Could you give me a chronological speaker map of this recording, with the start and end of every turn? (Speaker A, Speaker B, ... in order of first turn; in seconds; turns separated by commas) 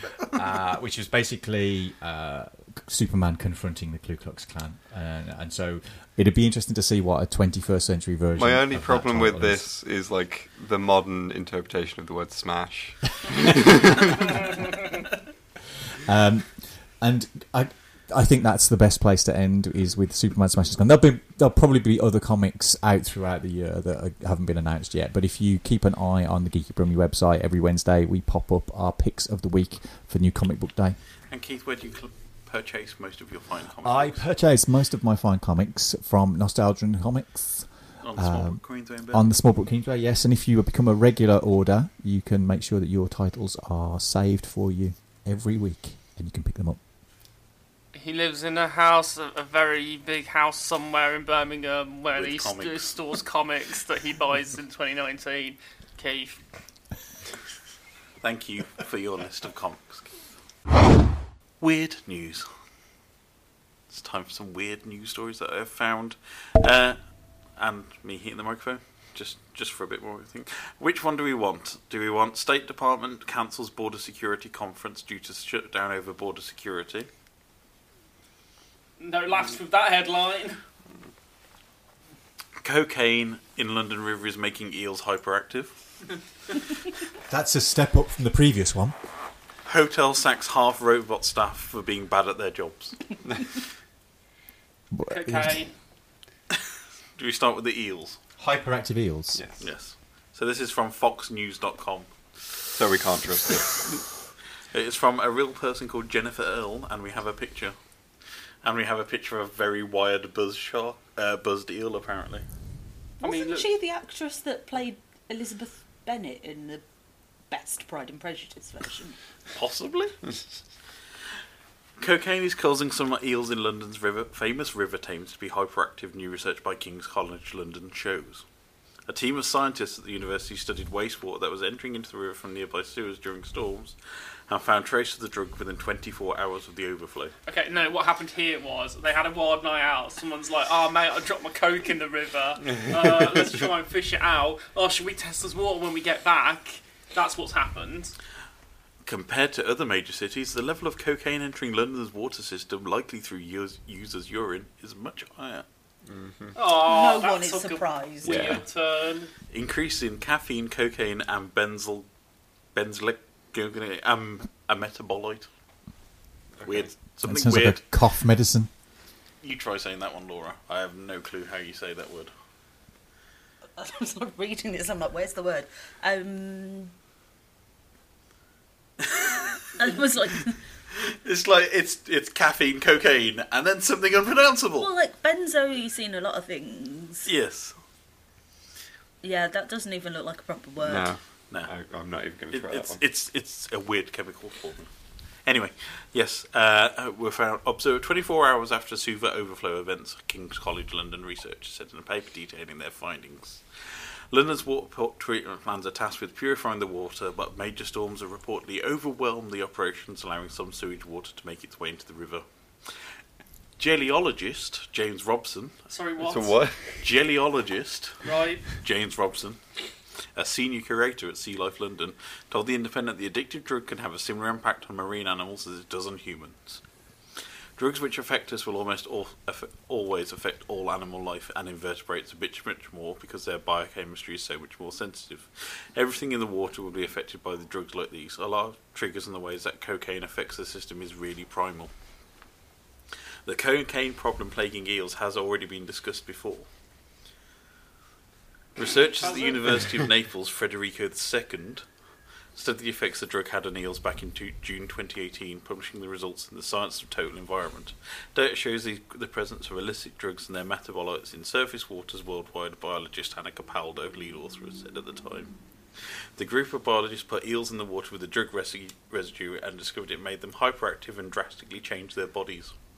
Speaker A: 0.3-9.7, Speaker B: 8.4-14.4, Speaker A: 16.0-31.0, Speaker C: 31.3-34.2, Speaker A: 33.8-46.8, Speaker C: 38.0-39.3, Speaker D: 47.9-56.4, Speaker C: 52.1-52.9, Speaker C: 58.2-60.1, Speaker C: 61.6-62.5, Speaker C: 63.9-67.0, Speaker C: 67.6-77.1, Speaker D: 79.0-80.6, Speaker C: 82.6-85.8, Speaker A: 87.3-89.0, Speaker C: 89.7-93.0, Speaker A: 94.9-95.6, Speaker D: 95.1-95.7, Speaker C: 97.2-98.2, Speaker A: 98.4-99.4, Speaker C: 99.6-102.1, Speaker B: 102.7-104.0, Speaker C: 104.7-107.8, Speaker C: 108.6-112.5, Speaker E: 113.2-116.8, Speaker D: 113.2-113.7, Speaker E: 117.5-119.2, Speaker C: 119.5-120.3, Speaker C: 122.0-128.4, Speaker C: 129.1-134.0, Speaker C: 134.5-137.3, Speaker D: 137.5-148.2, Speaker C: 149.1-155.7, Speaker B: 156.1-156.6, Speaker D: 156.6-159.3, Speaker E: 156.8-158.6, Speaker B: 158.2-158.6, Speaker C: 159.5-162.1, Speaker C: 162.7-165.5, Speaker B: 166.6-166.9, Speaker C: 166.6-167.8, Speaker A: 167.2-168.7, Speaker C: 169.4-172.3, Speaker E: 173.8-176.9, Speaker C: 179.0-179.6, Speaker E: 179.8-180.6, Speaker C: 181.0-184.9, Speaker E: 184.8-187.3, Speaker C: 187.2-187.8, Speaker E: 189.2-191.1, Speaker B: 190.8-193.0, Speaker C: 192.5-194.9, Speaker C: 195.5-203.6, Speaker C: 204.3-212.4, Speaker C: 213.8-215.8, Speaker D: 215.9-216.6, Speaker B: 216.2-217.0, Speaker C: 217.0-218.3, Speaker D: 218.2-218.7, Speaker C: 218.8-219.6, Speaker C: 220.3-226.8, Speaker C: 227.8-241.9, Speaker C: 243.5-246.7, Speaker C: 248.8-251.8, Speaker D: 249.2-249.8, Speaker C: 252.6-265.5, Speaker C: 266.4-272.7